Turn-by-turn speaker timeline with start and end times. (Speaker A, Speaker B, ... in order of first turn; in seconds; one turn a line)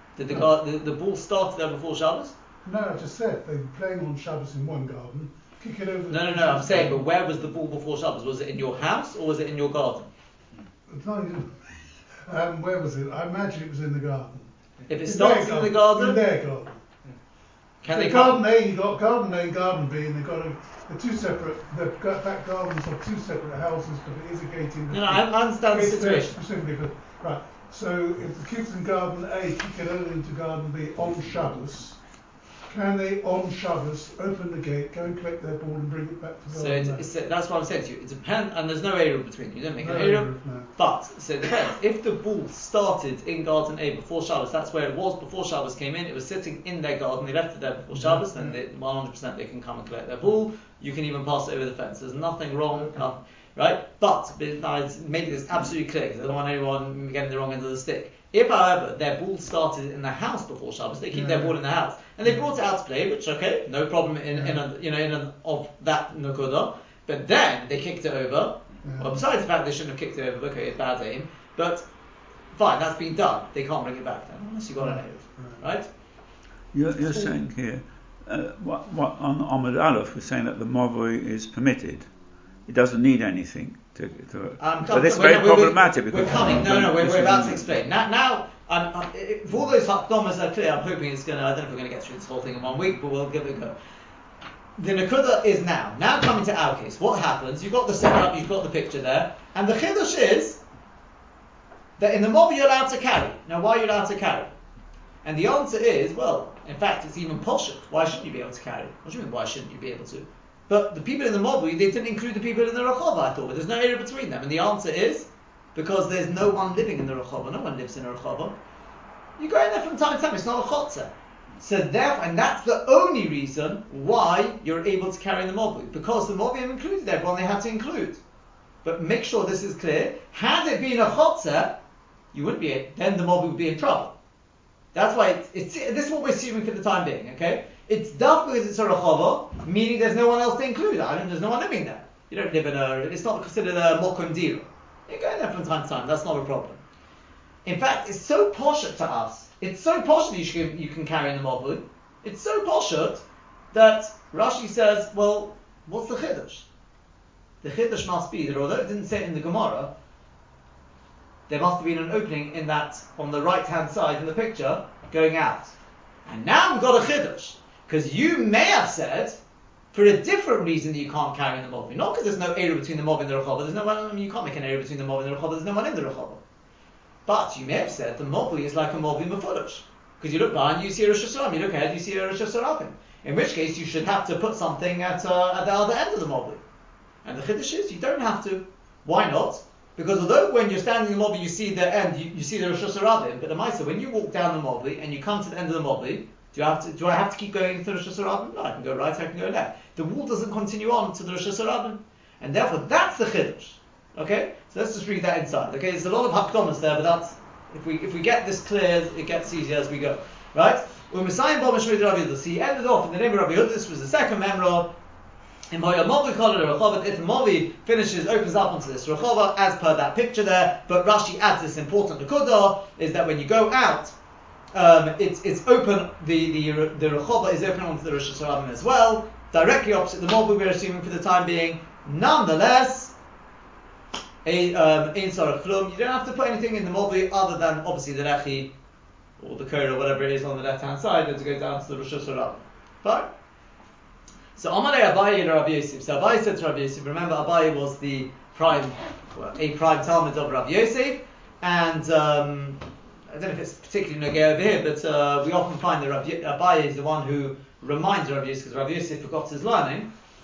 Speaker A: 0.1-2.3
Speaker B: 2.6-7.0
Speaker A: 6.1-10.1
Speaker B: 10.9-14.5
Speaker A: 14.9-16.2
Speaker B: 15.0-16.8
Speaker A: 17.8-18.4
Speaker B: 17.8-32.0
Speaker A: 24.9-26.4
Speaker B: 32.7-37.1
Speaker A: 36.5-71.8
Speaker B: 39.8-40.7
Speaker B: 47.9-48.6
Speaker B: 52.7-53.1
Speaker B: 61.1-61.6
Speaker B: 62.2-62.5
Speaker B: 64.3-64.6
Speaker B: 68.8-69.2
Speaker A: 72.5-75.9
Speaker B: 74.8-75.6
Speaker C: 76.7-82.1
Speaker C: 82.7-87.7
Speaker A: 84.6-93.7
Speaker A: 94.8-100.6
Speaker A: 102.0-104.5
Speaker A: 105.2-118.5
Speaker A: 119.4-128.2
Speaker A: 128.8-131.8
Speaker A: 132.3-134.1
Speaker A: 134.9-146.8
Speaker A: 147.6-156.7
Speaker A: 157.6-159.9
Speaker A: 161.5-169.4
Speaker A: 169.9-176.4
Speaker A: 177.2-186.6
Speaker A: 187.2-214.9
Speaker A: 215.7-224.1
Speaker A: 224.7-233.1
Speaker A: 234.4-238.7
Speaker A: 239.4-243.3
Speaker A: 244.6-260.1